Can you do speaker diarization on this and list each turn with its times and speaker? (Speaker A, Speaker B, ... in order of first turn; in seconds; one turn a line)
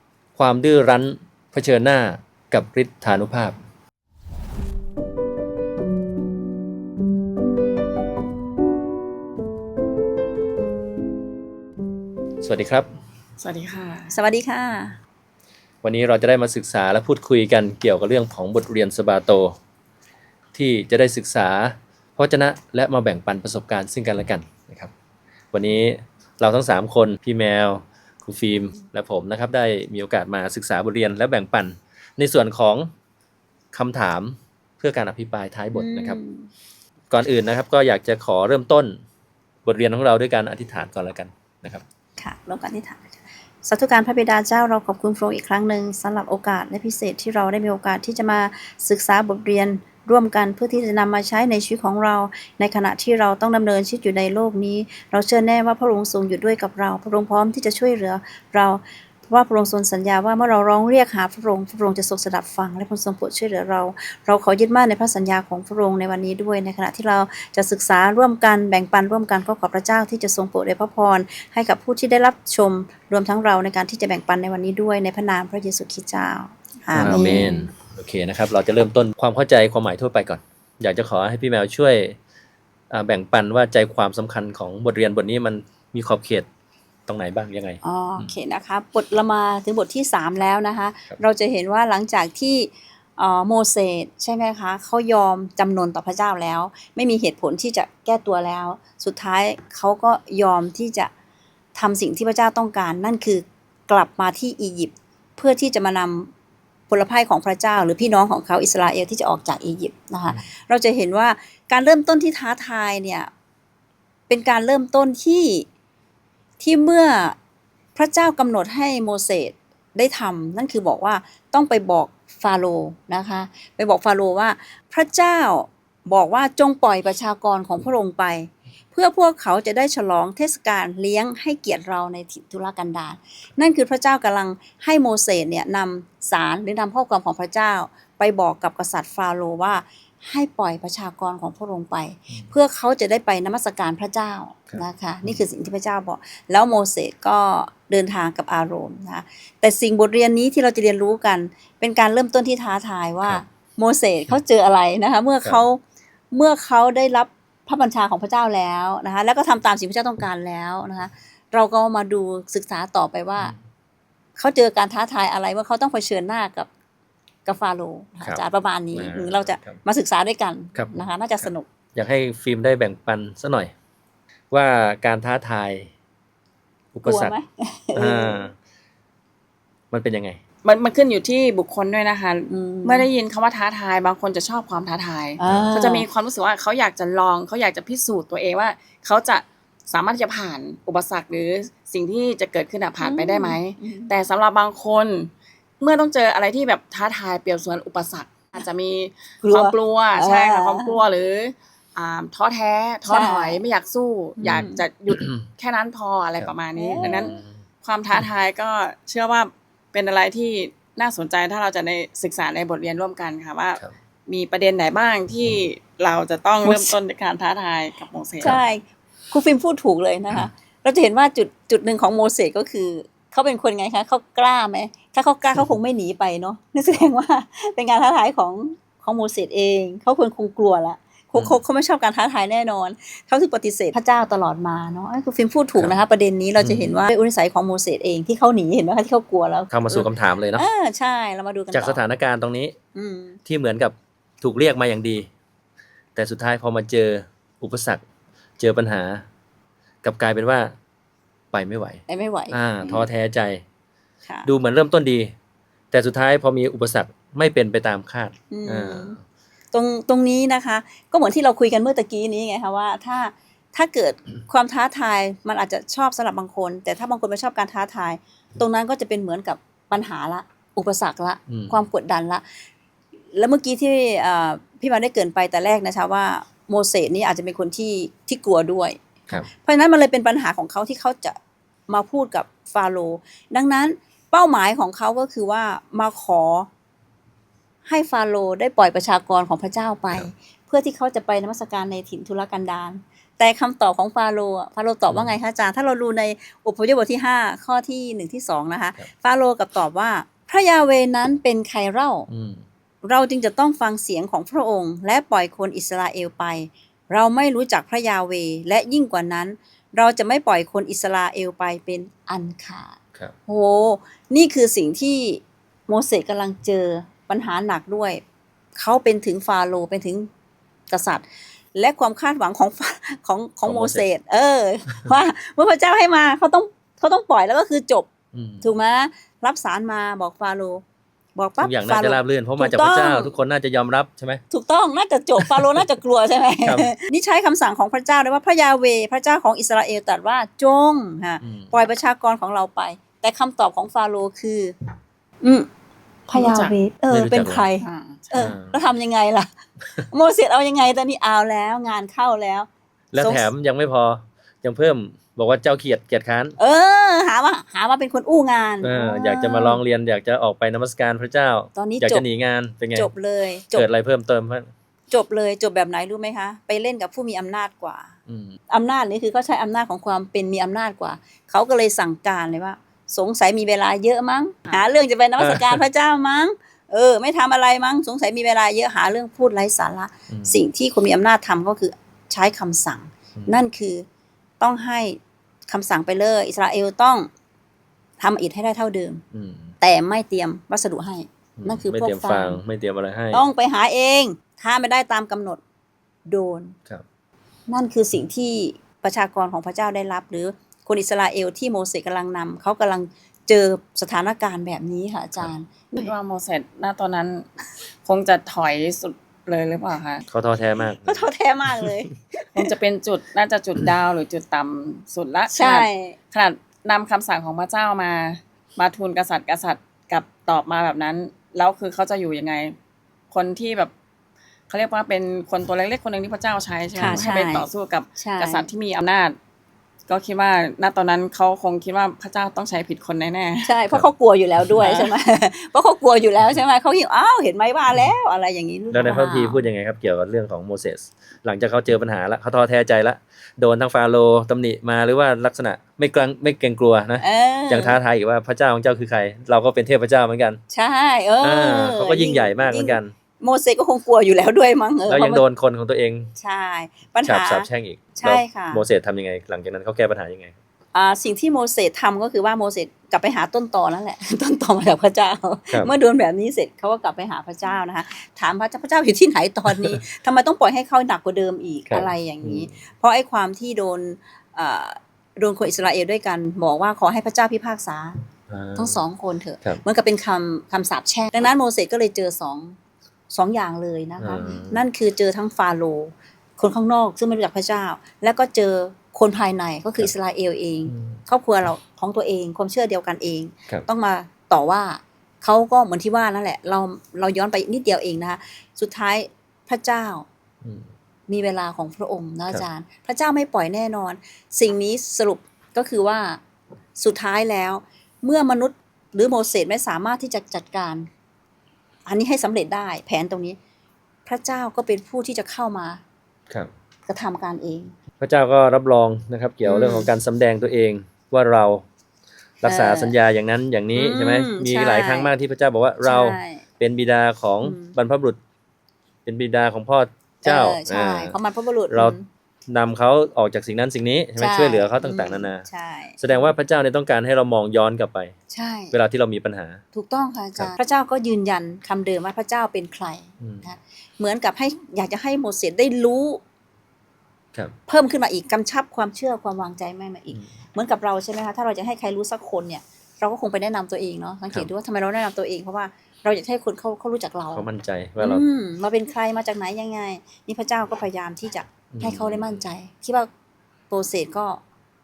Speaker A: 0.3-3.6
Speaker A: 12.4-12.9
Speaker B: 13.4-14.1
Speaker C: 14.1-15.0
Speaker A: 15.8-19.6
Speaker A: 20.5-24.9
Speaker A: 25.5-32.9
Speaker A: 33.7-36.2
Speaker C: 35.7-36.5
Speaker A: 37.1-39.0
Speaker A: 39.6-41.8
Speaker C: 42.2-77.7
Speaker A: 76.9-82.2
Speaker B: 77.0-77.4
Speaker A: 82.9-86.5
Speaker A: 87.1-88.3
Speaker C: 87.8-101.1
Speaker C: 101.7-106.3
Speaker C: 106.9-113.3
Speaker C: 114.3-115.7
Speaker C: 116.6-117.4
Speaker C: 117.9-163.5
Speaker A: 144.7-145.4
Speaker C: 164.3-166.7
Speaker C: 167.4-171.7
Speaker A: 168.9-169.8
Speaker A: 170.7-173.7
Speaker A: 174.5-175.9
Speaker A: 176.9-177.3
Speaker C: 177.0-178.4
Speaker A: 177.9-178.5
Speaker A: 179.9-180.4
Speaker B: 180.6-218.6
Speaker C: 182.5-183.1
Speaker C: 185.4-186.1
Speaker A: 185.4-185.7
Speaker C: 193.0-194.1
Speaker C: 199.4-201.0
Speaker C: 203.1-203.6
Speaker C: 204.4-204.8
Speaker A: 204.4-205.5
Speaker A: 206.4-207.6
Speaker C: 206.8-207.4
Speaker C: 216.6-217.0
Speaker C: 218.4-242.0
Speaker A: 236.6-236.9
Speaker A: 239.7-240.7
Speaker A: 241.7-242.7
Speaker C: 242.9-243.4
Speaker A: 243.4-245.3
Speaker A: 246.1-248.0
Speaker A: 248.6-249.2
Speaker A: 250.0-250.7
Speaker A: 251.5-253.6
Speaker C: 252.1-253.1
Speaker A: 254.4-255.3
Speaker A: 255.9-259.2
Speaker C: 258.5-259.2
Speaker C: 259.7-272.4
Speaker A: 271.5-271.8
Speaker C: 273.3-286.7
Speaker C: 287.8-302.3
Speaker A: 295.1-295.4
Speaker A: 302.3-302.6
Speaker C: 303.0-318.2
Speaker C: 318.8-320.3
Speaker C: 320.9-328.1
Speaker A: 323.6-324.1
Speaker A: 328.3-328.7
Speaker C: 328.6-330.8
Speaker C: 331.3-333.3
Speaker A: 331.6-334.4
Speaker C: 334.5-344.7
Speaker A: 335.4-335.8
Speaker A: 336.6-336.9
Speaker A: 341.4-341.7
Speaker C: 345.4-345.7
Speaker C: 346.3-349.5
Speaker B: 346.3-346.7
Speaker A: 347.1-347.6
Speaker B: 347.8-348.5
Speaker A: 348.4-348.8
Speaker C: 350.1-353.5
Speaker A: 353.1-356.6
Speaker C: 356.6-359.8
Speaker A: 358.8-363.1
Speaker C: 361.7-362.2
Speaker C: 362.9-363.9
Speaker A: 363.7-364.7
Speaker C: 365.1-368.1
Speaker A: 368.3-368.6
Speaker C: 368.7-384.1
Speaker A: 375.4-375.8
Speaker A: 380.3-380.6
Speaker A: 383.4-383.6
Speaker C: 384.6-387.3
Speaker C: 388.2-389.2
Speaker A: 389.3-389.7
Speaker C: 389.8-392.6
Speaker A: 391.6-393.4
Speaker C: 393.3-395.6
Speaker C: 396.3-396.8
Speaker C: 397.7-406.1
Speaker B: 405.9-410.2
Speaker A: 410.3-411.9
Speaker C: 411.0-412.7
Speaker B: 412.5-422.8
Speaker C: 415.5-416.2
Speaker B: 423.3-423.9
Speaker B: 424.7-429.4
Speaker C: 426.9-428.7
Speaker B: 430.1-433.7
Speaker C: 433.6-439.6
Speaker B: 434.8-435.1
Speaker A: 438.9-450.6
Speaker C: 447.2-448.0
Speaker C: 450.7-455.4
Speaker A: 451.4-453.1
Speaker A: 455.1-456.3
Speaker C: 456.4-458.8
Speaker A: 457.2-460.6
Speaker C: 460.9-478.1
Speaker A: 471.9-472.8
Speaker A: 478.5-479.0
Speaker C: 478.8-482.8
Speaker C: 483.3-500.3
Speaker A: 484.2-484.8
Speaker A: 490.9-491.2
Speaker A: 500.6-500.9
Speaker C: 501.3-506.4
Speaker C: 507.0-511.1
Speaker C: 512.0-513.6
Speaker C: 514.2-516.0
Speaker C: 517.0-517.9
Speaker A: 518.2-521.8
Speaker C: 519.6-520.1
Speaker A: 522.6-528.4
Speaker C: 522.6-523.1
Speaker C: 523.9-525.3
Speaker C: 526.0-526.6
Speaker C: 527.6-527.9
Speaker A: 529.2-531.4
Speaker C: 530.4-532.3
Speaker A: 532.7-535.7
Speaker C: 534.4-536.5
Speaker A: 536.2-538.4
Speaker C: 538.5-538.9
Speaker A: 538.9-539.8
Speaker C: 539.9-546.4
Speaker A: 543.4-543.7
Speaker C: 547.9-557.6
Speaker A: 557.5-558.4
Speaker C: 558.2-563.3
Speaker A: 561.9-562.5
Speaker C: 563.9-564.6